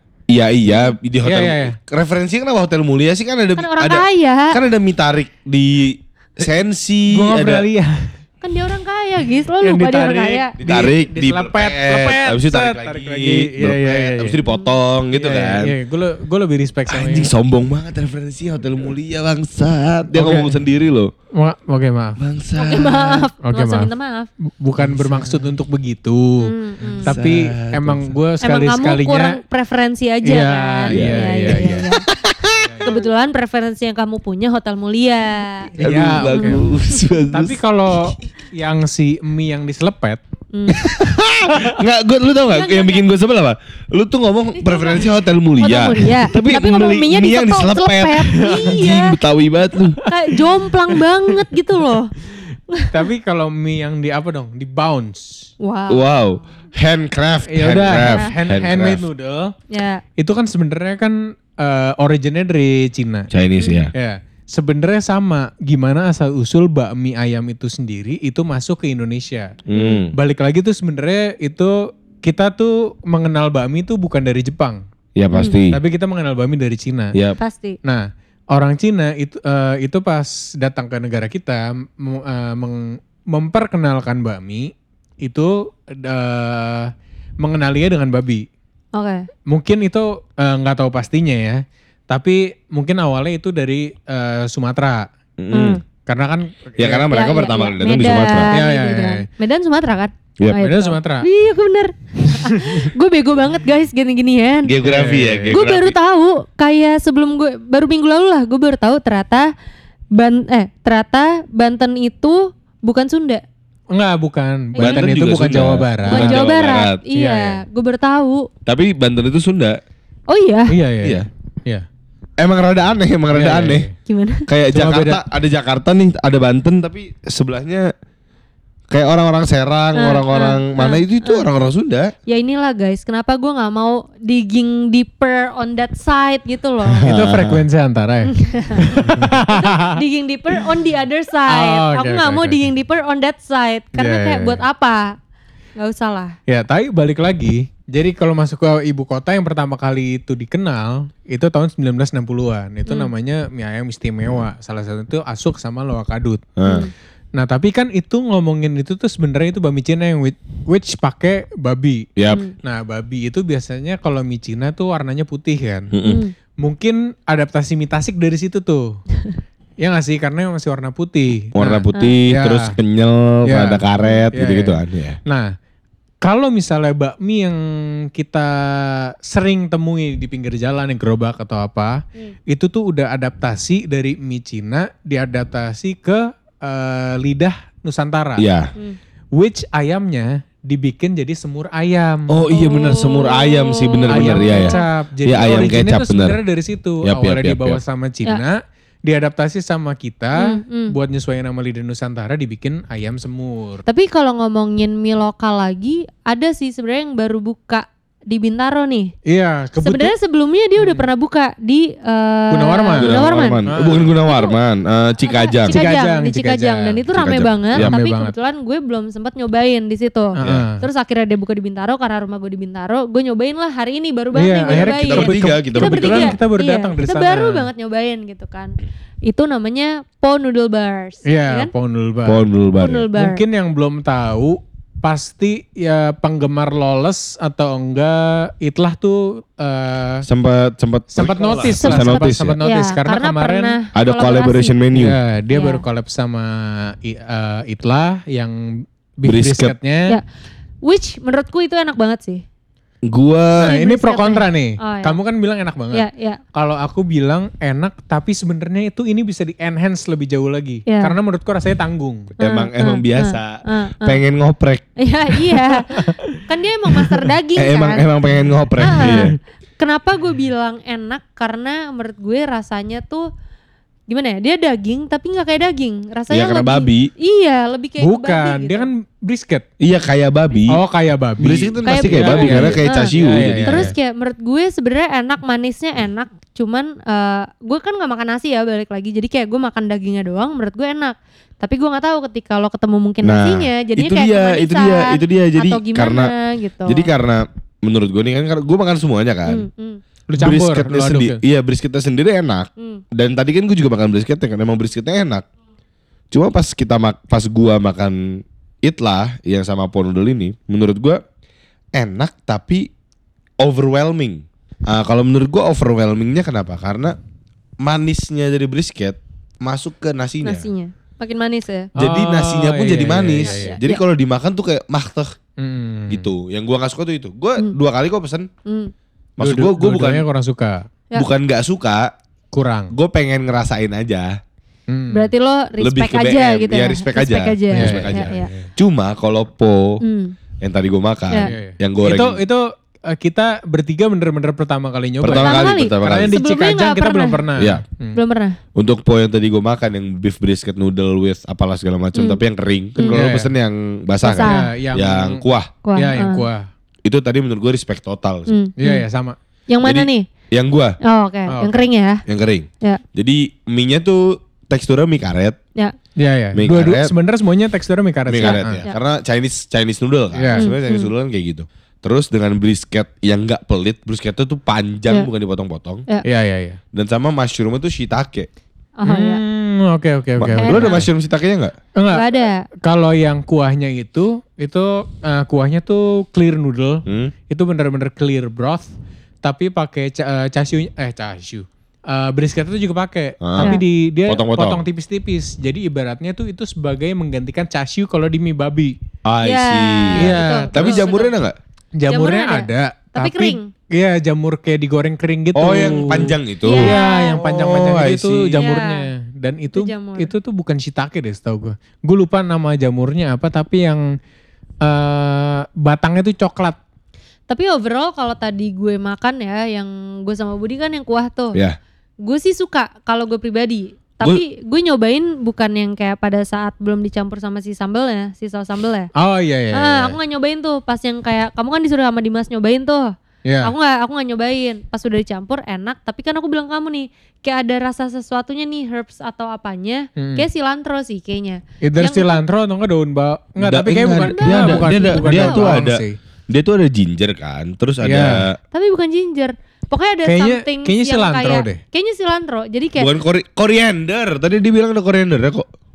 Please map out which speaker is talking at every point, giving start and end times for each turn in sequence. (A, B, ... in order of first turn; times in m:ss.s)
0:00.3-0:07.6 A
0:01.2-0:01.8 B
0:03.6-0:04.6 C
0:07.1-0:08.2 B
0:08.4-0:10.6 C
0:09.6-0:14.4 B
0:10.6-0:15.7 A
0:14.5-0:14.8 C
0:15.1-0:17.3 B
0:16.9-0:21.1 A
0:20.1-0:20.6 B
0:21.3-0:22.2 B
0:22.2-0:23.2 A
0:22.6-0:24.3 C
0:23.4-0:23.9 B
0:24.4-0:26.5 B
0:24.8-0:25.4 A
0:26.4-0:27.2 C
0:27.0-0:28.1 A
0:27.1-0:29.4 B
0:28.4-0:32.1 C
0:30.2-0:31.9 B
0:30.9-0:32.7 A
0:32.6-0:33.1 B
0:32.8-0:37.0 C
0:35.7-0:36.7 B
0:35.8-0:37.6 A
0:37.3-0:40.2 B
0:40.5-0:41.0 C
0:40.7-0:50.0 A
0:42.5-0:43.1 C
0:44.6-0:49.2 C
0:48.4-0:48.9 B
0:50.0-0:50.4 B
0:50.1-0:52.1 C
0:52.7-0:53.0 C
0:52.9-0:55.5 B
0:55.6-0:56.2 C
0:55.9-0:59.0 A
0:57.5-0:59.6 B
0:58.0-0:58.3 C
0:59.7-1:00.0 C
1:00.2-1:03.3 B
1:03.3-1:03.9 A
1:03.6-1:03.8 C
1:03.9-1:09.6 B
1:09.7-1:10.1 A
1:10.1-1:14.8 B
1:15.2-1:15.8 A
1:15.7-1:17.2 B
1:17.4-1:17.8 C
1:17.8-1:28.5 B
1:28.9-1:29.3 C
1:29.5-1:35.1 B
1:35.4-1:35.8 A
1:35.5-1:35.8 C
1:36.0-1:37.1 B
1:36.8-1:38.6 A
1:37.1-1:44.8 C
1:38.5-1:39.3 B
1:40.5-1:41.3 B
1:42.3-1:42.9 B
1:44.6-1:46.0 A
1:44.8-1:45.6 B
1:45.5-1:49.5 C
1:50.2-1:53.4 C
1:53.9-1:56.5 B
1:54.8-1:55.1 C
1:54.8-1:57.0 A
1:56.1-1:58.5 C
1:57.2-1:57.6 B
1:58.7-1:59.8 A
2:00.3-2:00.8 C
2:00.7-2:01.9 B
2:01.0-2:01.3 A
2:02.4-2:03.9 A
2:03.3-2:04.0 B
2:04.1-2:04.5 C
2:04.5-2:07.9 A
2:04.7-2:05.2 B
2:08.9-2:12.1 A
2:10.0-2:11.5 C
2:12.3-2:17.1 C
2:16.9-2:17.6 A
2:17.0-2:20.0 B
2:18.3-2:19.0 C
2:19.5-2:25.2 C
2:21.5-2:22.6 B
2:24.0-2:24.6 B
2:25.8-2:26.4 C
2:26.5-2:36.5 B
2:36.6-2:36.9 A
2:36.6-2:36.9 C
2:37.4-2:45.9 B
2:42.2-2:42.4 A
2:45.9-2:46.2 A
2:46.1-2:46.3 C
2:46.6-2:49.0 B
2:49.8-2:52.8 B
2:51.6-2:55.2 A
2:53.5-2:55.6 B
2:56.2-3:08.5 B
3:08.4-3:08.7 A
3:09.4-3:12.4 B
3:12.3-3:14.8 A
3:12.5-3:14.8 C
3:14.1-3:23.8 B
3:15.3-3:16.4 A
3:17.0-3:17.8 A
3:20.4-3:21.0 C
3:23.9-3:29.1 C
3:29.3-3:30.1 B
3:29.8-3:33.6 C
3:30.8-3:31.1 B
3:32.5-3:34.1 B
3:33.0-3:35.8 A
3:34.2-3:34.6 C
3:35.2-3:51.7 C
3:35.7-3:37.0 B
3:37.1-3:37.9 A
3:37.7-3:38.4 B
3:40.4-3:40.9 B
3:44.3-3:47.7 B
3:44.7-3:46.4 A
3:51.3-3:52.5 B
3:52.2-3:53.1 A
3:52.8-3:53.4 C
3:53.1-4:00.3 B
4:00.3-4:02.6 A
4:01.1-4:03.8 B
4:01.6-4:04.8 C
4:04.0-4:05.2 A
4:04.9-4:10.2 B
4:05.5-4:05.8 C
4:09.3-4:09.8 A
4:10.8-4:12.4 C
4:13.1-4:13.7 A
4:13.6-4:22.3 B
4:13.6-4:15.2 C
4:15.9-4:16.4 C
4:20.9-4:21.2 C
4:22.4-4:24.2 C
4:22.4-4:24.9 A
4:25.0-4:28.1 C
4:25.7-4:26.4 B
4:27.0-4:27.3 B
4:27.6-4:29.4 A
4:28.8-4:33.3 C
4:29.0-4:29.3 B
4:34.1-4:38.9 C
4:36.3-4:37.1 A
4:38.0-4:39.7 B
4:39.8-4:40.8 A
4:40.7-4:44.0 B
4:41.4-4:43.9 A
4:41.9-4:43.1 C
4:43.6-4:57.1 C
4:53.2-4:56.3 A
4:56.9-4:59.7 A
4:59.5-5:00.0 C
5:00.3-5:01.4 B
5:00.4-5:05.5 A
5:02.8-5:03.0 C
5:06.3-5:11.2 A
5:11.9-5:12.9 A
5:13.6-5:17.2 A
5:17.8-5:20.7 A
5:20.4-5:21.9 C
5:22.0-5:23.8 B
5:22.0-5:25.3 A
5:23.4-5:24.0 C
5:25.6-5:26.3 B
5:26.1-5:28.5 A
5:28.7-5:28.9 C
5:29.4-5:30.2 A
5:29.4-5:30.9 B
5:31.2-5:32.1 A
5:32.5-5:32.9 B
5:32.9-5:34.4 A
5:34.9-5:35.3 B
5:35.1-5:38.5 C
5:35.8-5:40.0 A
5:37.7-5:38.7 B
5:40.0-5:40.4 C
5:40.6-5:42.4 A
5:41.4-5:48.2 B
5:45.2-5:46.4 A
5:45.3-5:47.5 C
5:48.2-5:48.6 C
5:48.8-5:55.7 A
5:53.0-5:53.2 C
5:53.1-5:53.5 B
5:54.3-5:54.7 C
5:54.3-5:55.4 B
5:55.8-5:56.5 C
5:56.0-5:56.7 B
5:57.0-5:58.6 A
5:58.5-5:59.1 C
5:58.8-5:59.4 B
5:59.7-6:00.3 C
5:59.8-6:01.0 A
6:01.0-6:02.2 C
6:01.5-6:01.9 B
6:02.3-6:05.6 A
6:06.2-6:08.8 B
6:06.6-6:07.1 A
6:08.3-6:16.0 A
6:08.4-6:09.0 C
6:10.4-6:10.7 B
6:10.6-6:11.1 C
6:16.2-6:16.8 B
6:16.9-6:18.5 A
6:19.0-6:19.4 C
6:19.0-6:21.1 B
6:20.4-6:21.7 A
6:20.6-6:21.1 C
6:22.0-6:28.9 B
6:22.1-6:22.7 C
6:27.1-6:27.3 A
6:29.4-6:39.0 B
6:33.4-6:34.8 A
6:39.2-6:41.6 A
6:39.4-6:41.4 C
6:40.2-6:41.0 B
6:42.0-6:54.0 B
6:42.1-6:43.7 C
6:45.6-6:48.6 A
6:46.6-6:47.4 C
6:48.6-6:49.0 C
6:49.7-6:50.3 C
6:54.8-6:56.8 B
6:57.5-7:01.6 C
7:02.2-7:09.1 C
7:09.2-7:10.2 B
7:09.7-7:22.4 C
7:13.5-7:13.7 B
7:20.2-7:20.5 B
7:21.8-7:26.2 B
7:23.6-7:28.6 A
7:24.0-7:25.9 C
7:28.0-7:28.4 B
7:28.7-7:33.1 C
7:30.2-7:31.8 B
7:33.0-7:35.7 A